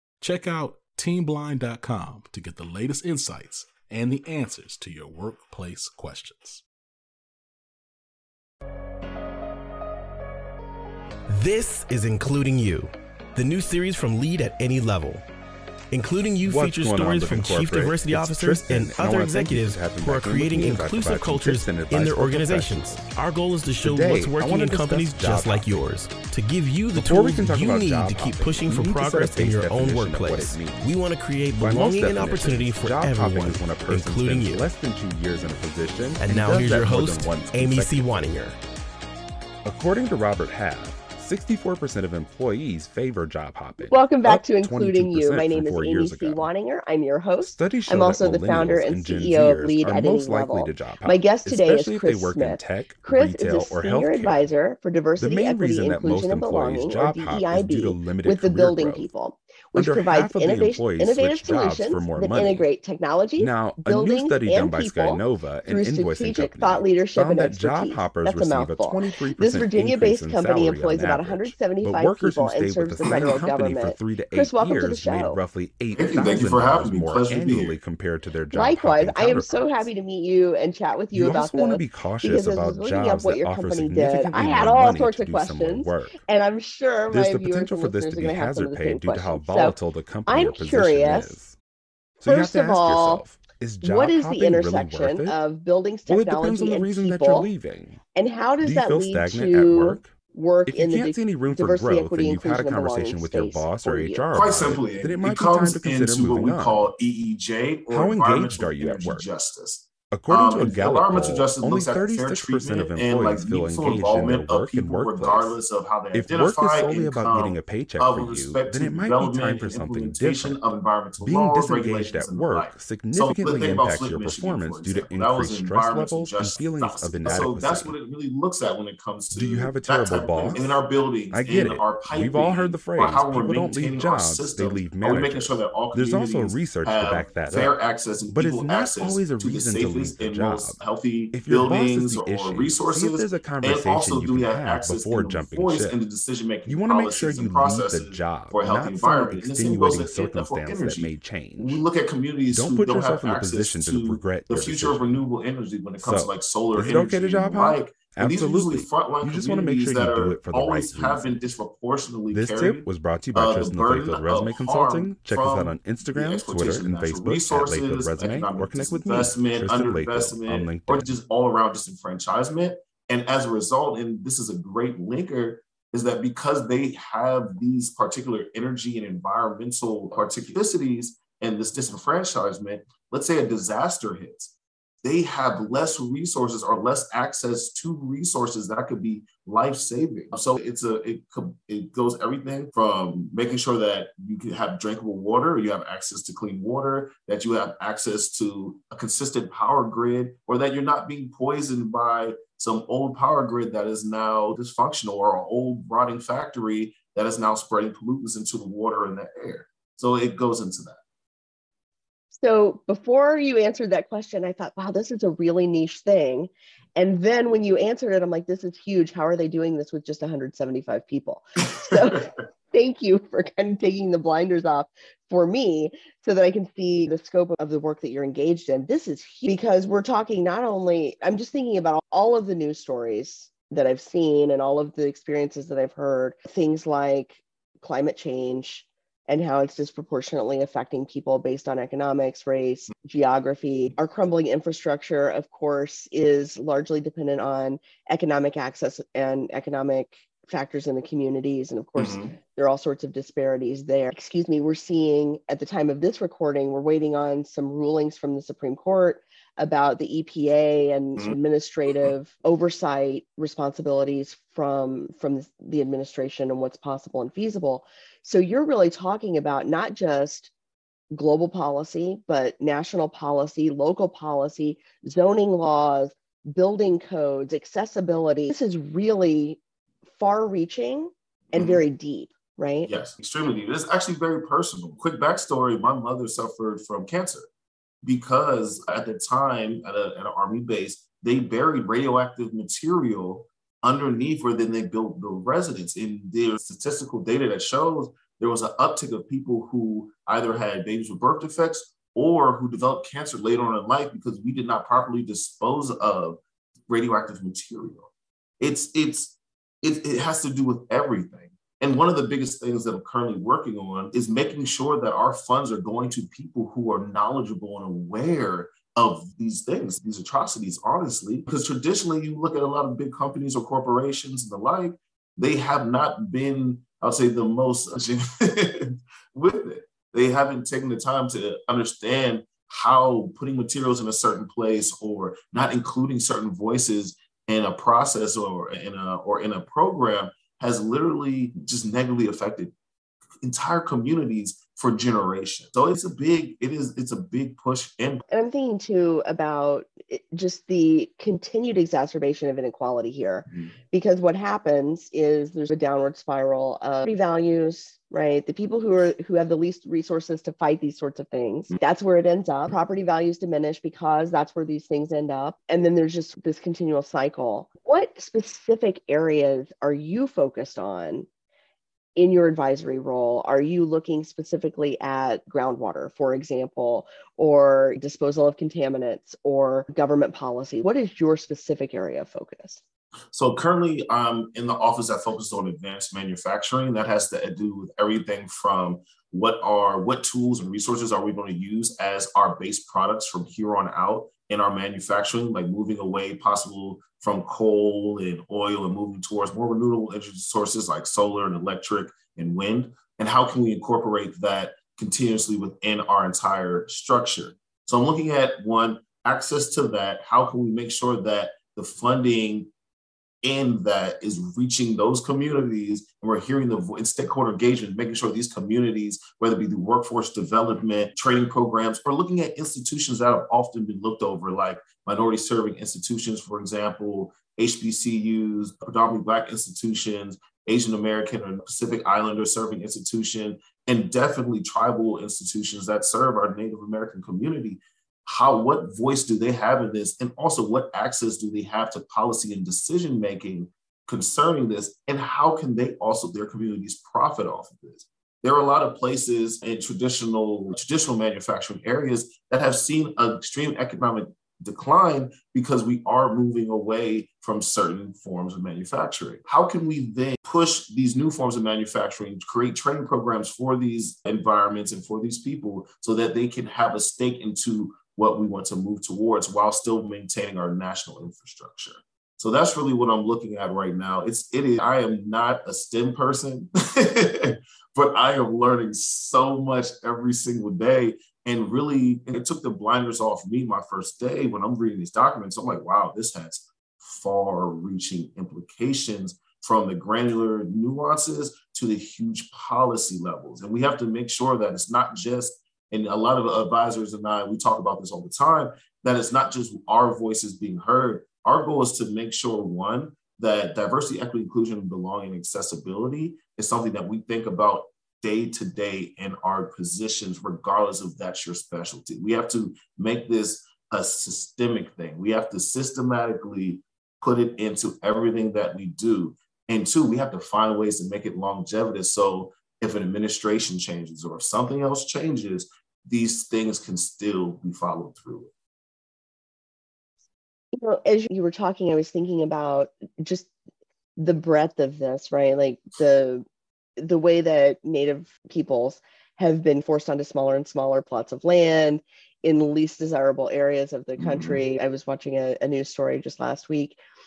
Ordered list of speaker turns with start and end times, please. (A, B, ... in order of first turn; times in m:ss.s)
0:00.2-0:06.6 A
0:11.3-0:15.2 B
0:15.9-0:34.7 B
0:16.4-0:23.1 C
0:23.8-0:25.7 C
0:27.0-0:30.9 C
0:31.6-0:38.4 C
0:36.2-0:38.6 B
0:39.6-0:46.5 C
0:43.8-1:15.4 D
0:47.4-0:54.4 C
0:55.2-0:59.1 C
0:59.8-1:02.6 C
1:03.4-1:19.9 C
1:16.0-1:17.8 E
1:18.5-1:31.4 D
1:21.1-1:26.2 C
1:27.1-1:31.6 C
1:32.2-1:35.4 C
1:32.2-1:33.2 D
1:33.8-1:37.5 D
1:36.1-1:38.0 C
1:38.2-1:44.3 D
1:38.6-1:40.1 C
1:40.7-1:46.9 C
1:44.3-3:04.5 E
1:47.9-1:49.3 C
1:50.1-1:55.6 C
1:56.1-2:00.6 C
2:01.2-2:07.9 C
2:09.3-2:10.8 C
2:11.3-2:17.7 C
2:18.3-2:20.8 C
2:21.3-2:26.0 C
2:26.7-2:31.8 C
2:32.5-2:35.2 C
2:36.0-2:41.4 C
2:42.3-2:51.2 C
3:05.0-3:31.0 E
3:32.4-4:30.5 D
4:12.0-4:12.3 E
4:31.1-4:39.6 D
4:40.2-4:42.9 D
4:41.5-4:41.8 E
4:42.9-4:47.5 E
4:48.0-5:42.7 E
5:43.4-5:48.2 E
5:48.3-6:11.3 D
6:12.2-6:22.8 D
6:23.3-6:52.7 E
6:53.4-8:48.5 E
8:50.7-8:53.5 D
8:54.2-8:56.4 D
8:57.0-9:07.0 D
9:04.2-9:04.6 E